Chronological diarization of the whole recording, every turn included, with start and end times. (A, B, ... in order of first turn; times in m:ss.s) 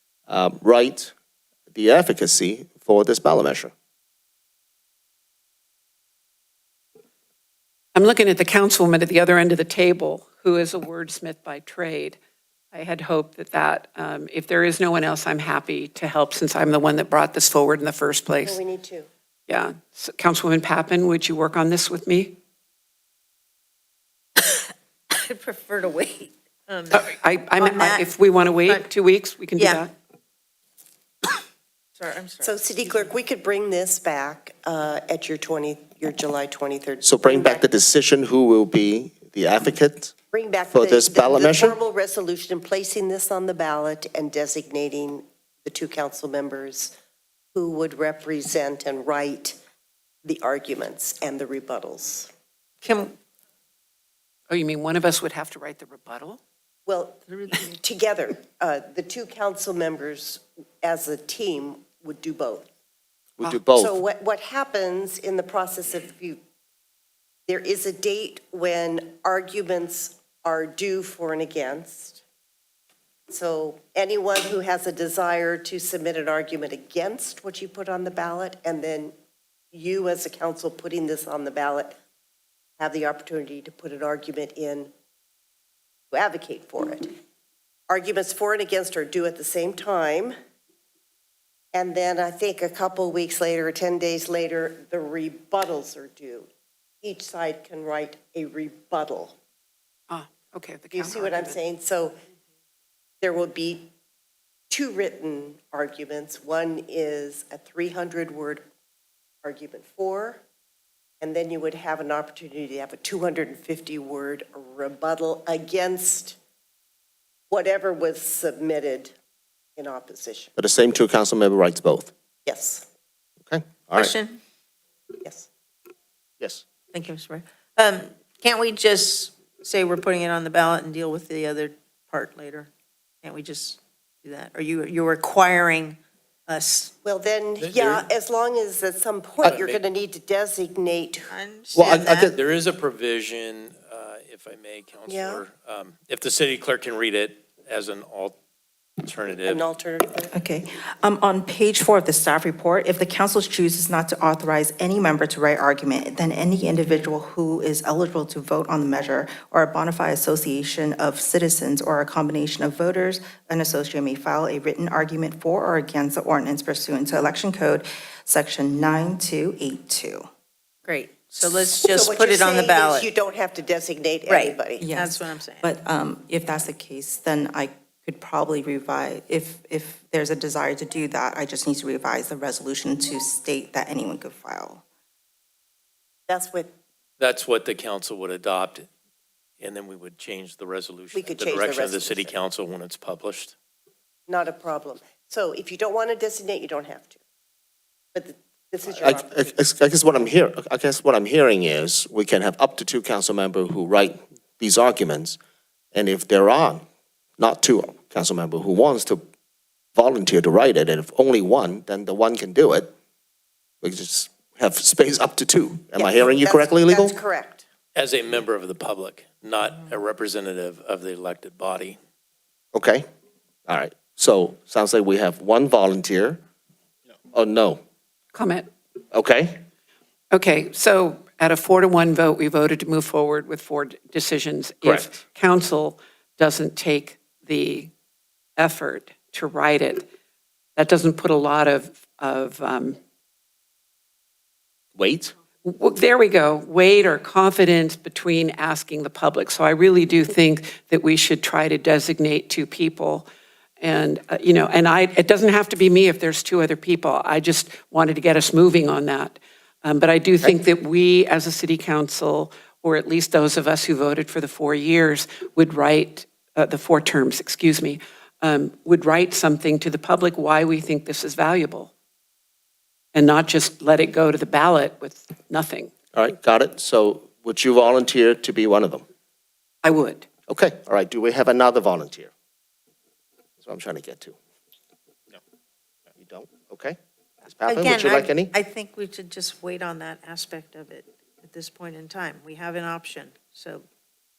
0:00.3-0:01.1 A
0:01.7-0:03.7 A
0:07.9-0:12.2 B
0:12.7-0:18.6 B
0:18.4-0:19.1 C
0:19.5-0:22.4 B
0:24.4-0:28.1 D
0:26.9-0:29.9 B
0:28.6-0:28.9 D
0:29.6-0:29.8 D
0:32.0-0:33.0 D
0:32.4-0:37.6 C
0:37.0-0:40.1 A
0:40.3-0:46.9 C
0:40.7-0:41.8 A
0:47.5-0:49.6 C
0:50.2-0:52.3 C
0:52.8-0:53.2 D
0:54.5-0:56.4 B
0:56.8-1:02.7 C
0:57.3-0:57.8 D
1:03.4-1:03.9 A
1:03.7-1:06.4 C
1:07.5-1:12.2 C
1:13.3-1:19.1 C
1:19.7-1:22.0 C
1:22.8-1:24.9 C
1:26.1-1:27.1 C
1:27.9-1:30.3 C
1:31.7-1:36.5 C
1:37.0-1:39.3 C
1:40.1-1:41.6 B
1:40.9-1:42.1 C
1:43.2-1:43.9 C
1:44.7-1:48.6 C
1:49.4-1:50.4 C
1:51.2-1:56.4 C
1:57.5-1:59.1 C
1:59.8-2:00.5 C
2:00.6-2:02.1 A
2:02.4-2:02.8 C
2:03.5-2:04.1 A
2:04.0-2:04.4 D
2:06.9-2:12.7 D
2:13.2-2:16.9 D
2:17.0-2:21.3 C
2:17.6-2:18.0 E
2:19.4-2:19.8 E
2:21.3-2:22.3 D
2:21.7-2:22.4 A
2:22.4-2:28.4 E
2:25.1-2:25.4 C
2:29.0-2:29.6 E
2:29.2-2:30.3 C
2:30.3-2:50.2 F
2:50.8-2:53.1 D
2:51.7-2:54.8 C
2:54.2-2:55.7 D
2:54.8-3:04.8 F
3:06.3-3:06.7 C
3:07.2-3:08.9 E
3:09.6-3:13.5 E
3:11.1-3:12.3 C
3:14.3-3:17.2 C
3:18.1-3:19.5 C
3:18.9-3:25.4 A
3:25.9-3:26.8 A
3:27.4-3:29.2 A
3:29.9-3:32.9 A
3:33.8-3:37.2 A
3:36.0-3:37.6 C
3:37.9-3:42.0 E
3:42.7-3:43.1 A
3:43.7-3:46.4 A
3:47.3-3:47.8 A
3:48.3-3:48.7 B
3:49.1-3:49.6 A
3:50.3-3:57.9 B
3:54.8-3:55.1 A
3:58.6-4:00.1 B
4:00.7-4:03.0 B
4:05.0-4:05.3 A
4:05.6-4:13.3 B
4:13.8-4:31.9 B
4:33.1-4:35.9 B
4:36.1-4:39.0 A
4:39.8-4:40.2 B
4:40.5-4:42.3 A
4:43.6-4:44.4 A
4:46.2-4:48.5 A
4:47.6-4:53.8 D